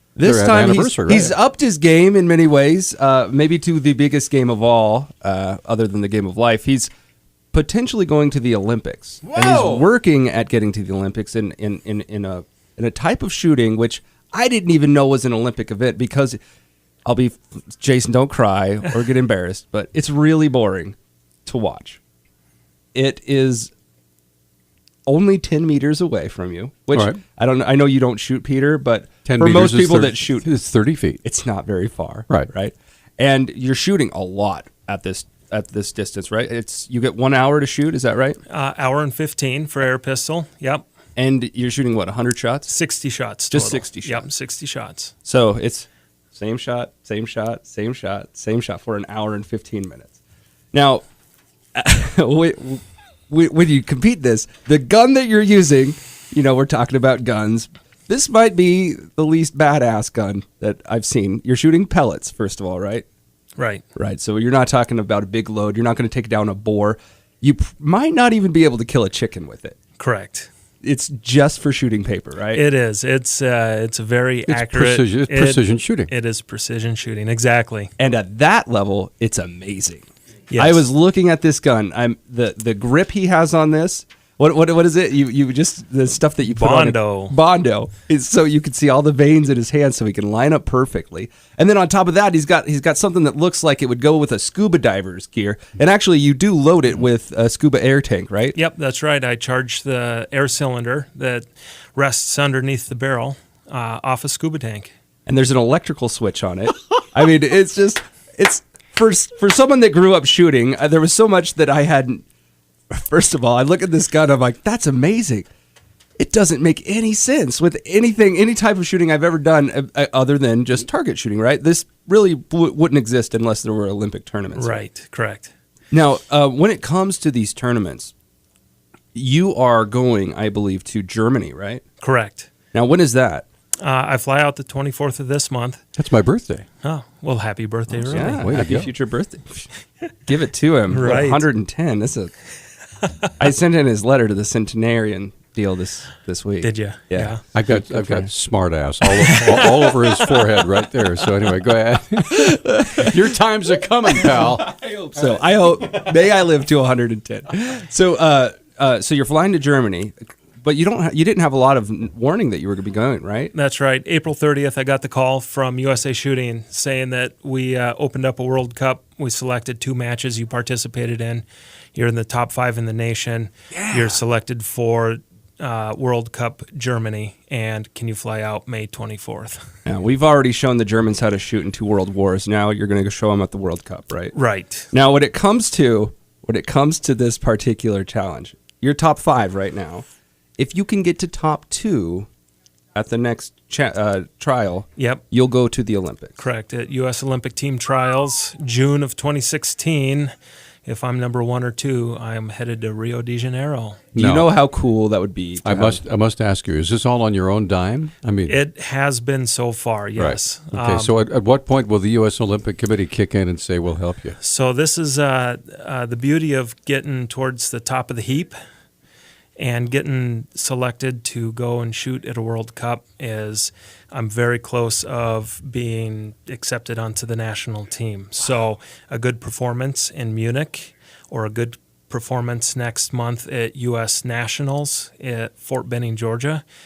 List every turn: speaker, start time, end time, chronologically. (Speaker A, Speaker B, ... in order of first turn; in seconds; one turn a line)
Speaker A: 0.1-6.9
Speaker B: 0.2-1.3
Speaker A: 7.5-16.4
Speaker B: 9.2-9.8
Speaker A: 17.0-22.0
Speaker A: 22.9-23.7
Speaker A: 25.1-30.5
Speaker B: 29.2-31.2
Speaker A: 31.2-38.4
Speaker C: 38.5-40.8
Speaker A: 41.1-42.7
Speaker C: 42.7-45.1
Speaker A: 43.5-44.2
Speaker A: 45.2-50.2
Speaker A: 50.7-51.0
Speaker A: 51.7-63.0
Speaker C: 63.5-63.8
Speaker A: 64.0-69.8
Speaker C: 70.0-70.5
Speaker A: 70.8-72.6
Speaker C: 72.5-77.9
Speaker B: 74.5-76.1
Speaker A: 78.0-98.6
Speaker C: 80.5-80.9
Speaker C: 86.4-87.3
Speaker C: 98.5-104.9
Speaker A: 105.2-112.2
Speaker A: 112.9-115.5
Speaker A: 116.2-124.8
Speaker C: 124.5-125.5
Speaker A: 125.9-128.1
Speaker A: 129.1-131.8
Speaker C: 132.0-132.5
Speaker A: 132.7-133.4
Speaker C: 133.8-135.8
Speaker B: 136.0-136.7
Speaker C: 136.8-138.4
Speaker A: 138.1-139.7
Speaker B: 138.2-138.9
Speaker A: 140.2-142.3
Speaker C: 140.9-141.4
Speaker A: 143.4-148.3
Speaker C: 146.6-147.4
Speaker B: 147.5-154.6
Speaker C: 149.0-150.4
Speaker A: 154.1-163.5
Speaker C: 163.5-179.6
Speaker A: 173.7-174.2
Speaker A: 179.8-184.3
Speaker C: 184.3-184.9
Speaker A: 184.9-190.0
Speaker A: 190.6-192.3
Speaker A: 192.9-196.4
Speaker C: 195.0-195.2
Speaker C: 196.4-200.3
Speaker C: 200.8-204.0
Speaker A: 204.1-206.0
Speaker B: 204.2-204.5
Speaker B: 205.6-208.6
Speaker C: 208.5-211.1
Speaker B: 210.2-214.4
Speaker C: 214.4-218.5
Speaker C: 219.6-236.6